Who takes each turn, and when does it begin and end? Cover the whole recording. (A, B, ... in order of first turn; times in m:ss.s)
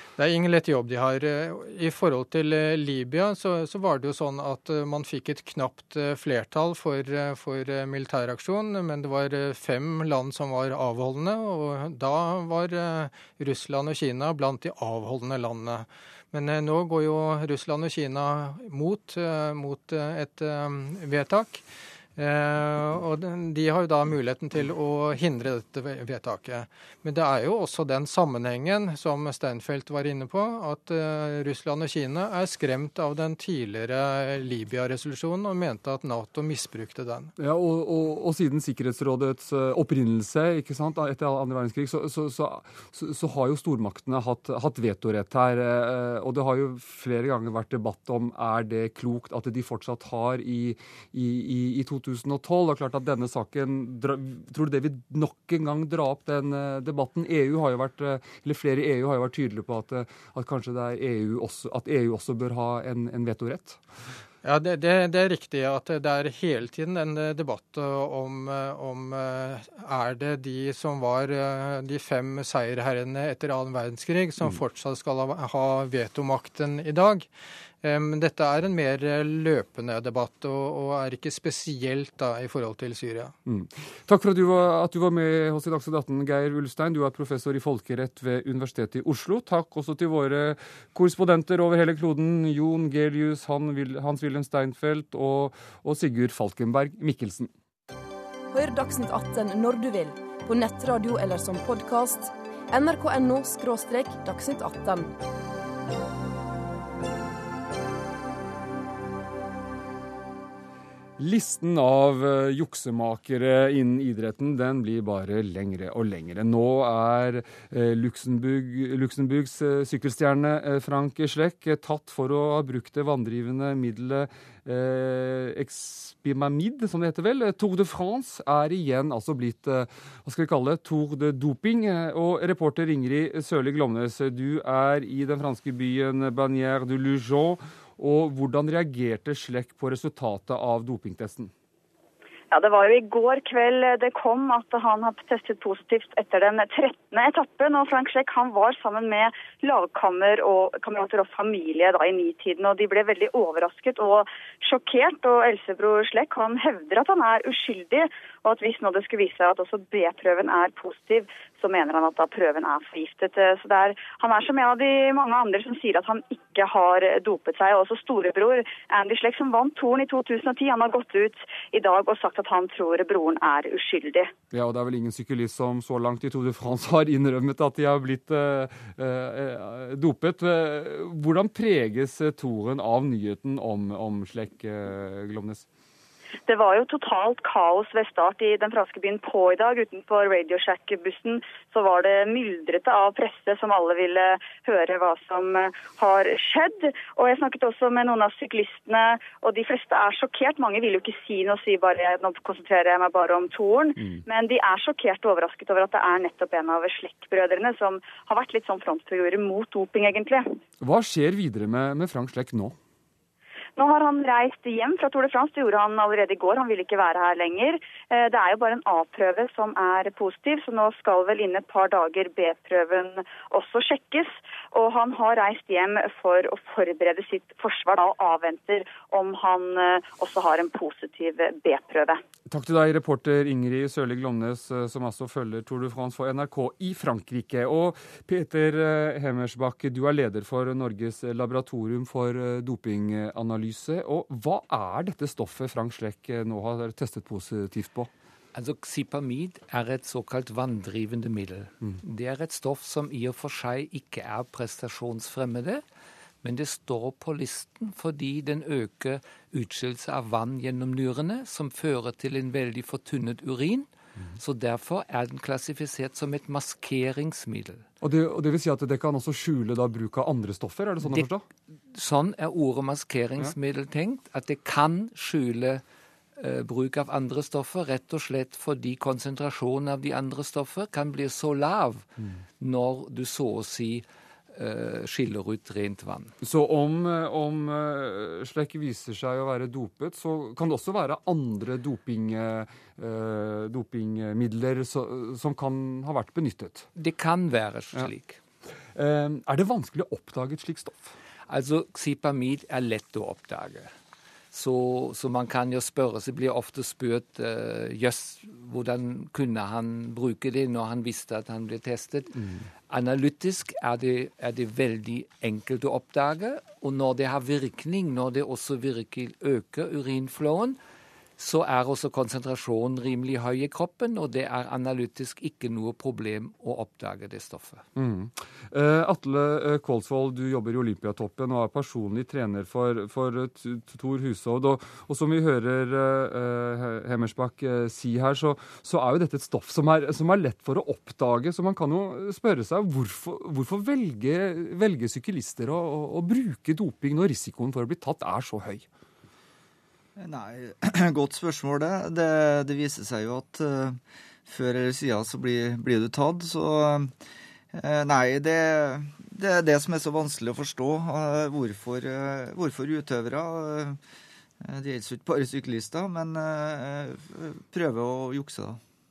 0:00.2-0:21.6 A
0:22.2-0:37.3 A
0:37.4-1:03.8 B
1:04.4-1:17.3 A
1:17.8-1:23.3 A
1:23.4-1:37.5 B
1:38.5-1:45.1 C
1:51.2-2:21.5 B
2:22.5-2:54.3 D
2:54.5-3:05.6 B
3:06.4-3:30.6 D
3:30.8-3:32.8 B
3:33.8-3:52.2 D
3:52.5-4:08.1 B
4:08.5-4:15.8 E
4:16.4-4:27.8 E
4:28.0-4:31.4 B
4:31.0-4:31.3 E
4:31.9-4:35.8 E
4:36.4-4:46.3 E
4:46.4-4:56.9 B
4:57.0-4:58.4 E
4:58.9-5:01.1 B
5:01.5-5:03.9 E
5:04.5-5:20.8 E
5:21.4-5:27.8 E
5:28.0-5:48.8 B
5:50.2-5:57.2 F
5:57.7-6:04.0 F
6:04.6-6:08.8 F